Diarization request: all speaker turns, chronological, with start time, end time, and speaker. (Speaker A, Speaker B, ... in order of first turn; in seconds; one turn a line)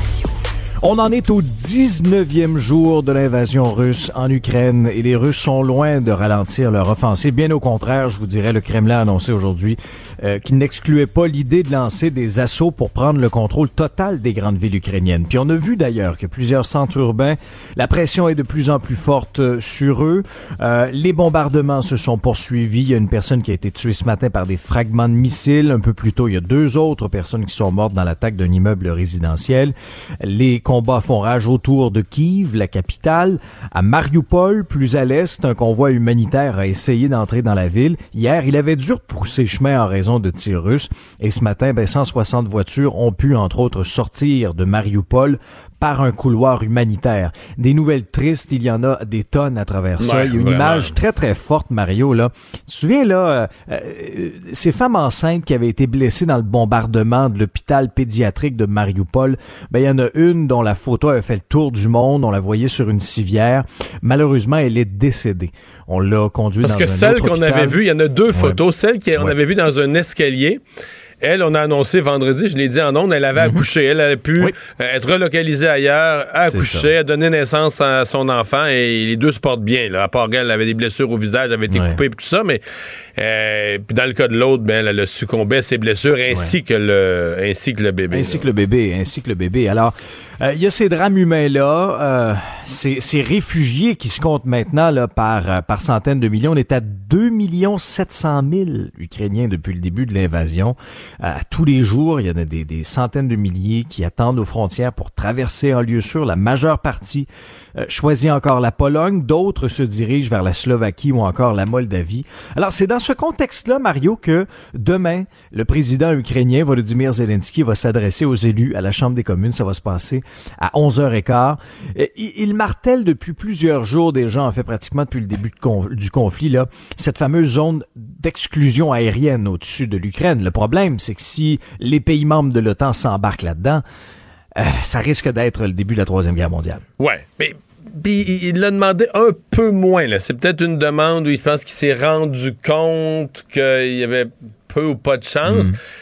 Speaker A: 0.8-67.8
Speaker B: 50.0-50.9
Speaker B: 66.6-70.6
Speaker A: 68.3-68.6
Speaker B: 71.2-82.6
Speaker A: 73.4-73.6
Speaker A: 76.4-76.9
Speaker A: 81.7-82.0
Speaker B: 83.2-88.5
Speaker A: 88.1-133.8
Speaker A: 134.6-136.8
Speaker B: 137.0-145.8
Speaker A: 145.5-145.8